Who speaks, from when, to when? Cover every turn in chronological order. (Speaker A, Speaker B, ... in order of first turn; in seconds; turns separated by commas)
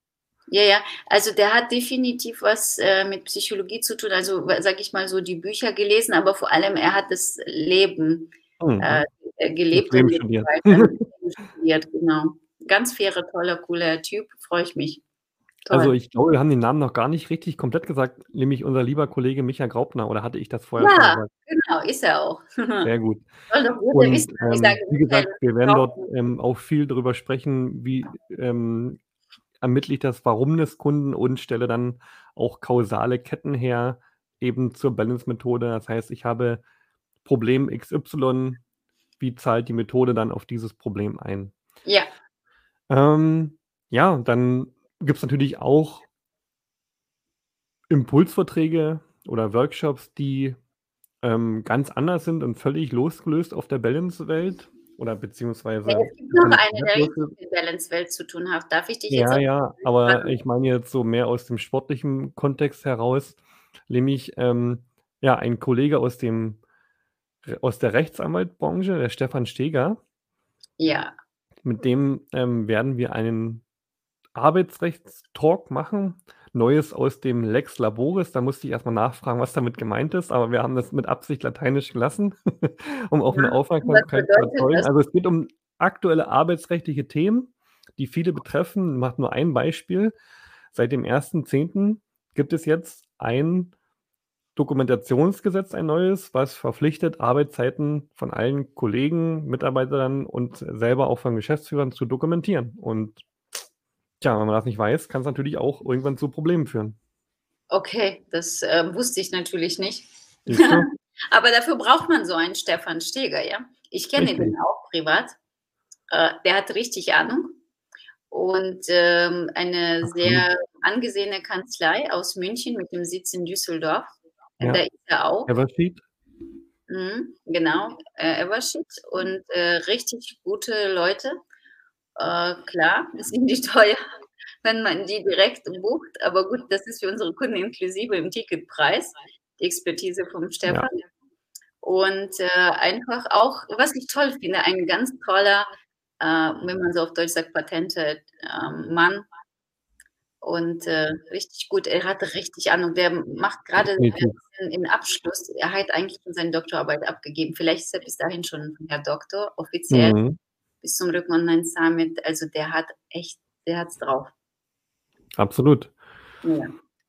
Speaker A: 0.5-15.0, Speaker B: 8.6-9.0, Speaker B: 9.7-11.0, Speaker A: 15.7-15.9, Speaker B: 15.7-21.3, Speaker A: 20.8-22.9, Speaker B: 22.8-23.3, Speaker A: 23.5-26.1, Speaker B: 23.9-29.0, Speaker B: 29.6-36.6, Speaker B: 37.2-38.6, Speaker B: 39.2-41.5, Speaker B: 42.9-46.0, Speaker B: 47.9-50.6, Speaker B: 51.2-57.3, Speaker A: 55.9-60.4, Speaker B: 59.1-66.6, Speaker B: 67.4-70.0, Speaker A: 70.8-71.1, Speaker B: 71.6-73.6, Speaker B: 74.3-90.1, Speaker A: 83.3-84.9, Speaker B: 90.7-93.7, Speaker B: 94.5-103.2, Speaker B: 104.2-107.0, Speaker A: 107.7-115.3, Speaker B: 110.5-110.9, Speaker B: 114.2-114.5, Speaker A: 116.1-117.6, Speaker A: 118.3-125.5, Speaker B: 120.0-120.4, Speaker B: 125.5-126.0, Speaker A: 126.9-131.4, Speaker A: 132.2-134.0, Speaker A: 134.6-141.0, Speaker A: 141.8-145.7, Speaker A: 146.2-149.2, Speaker A: 150.4-160.2, Speaker B: 153.9-154.3, Speaker B: 159.9-160.4, Speaker A: 160.8-164.3, Speaker B: 165.4-165.9, Speaker A: 166.4-166.7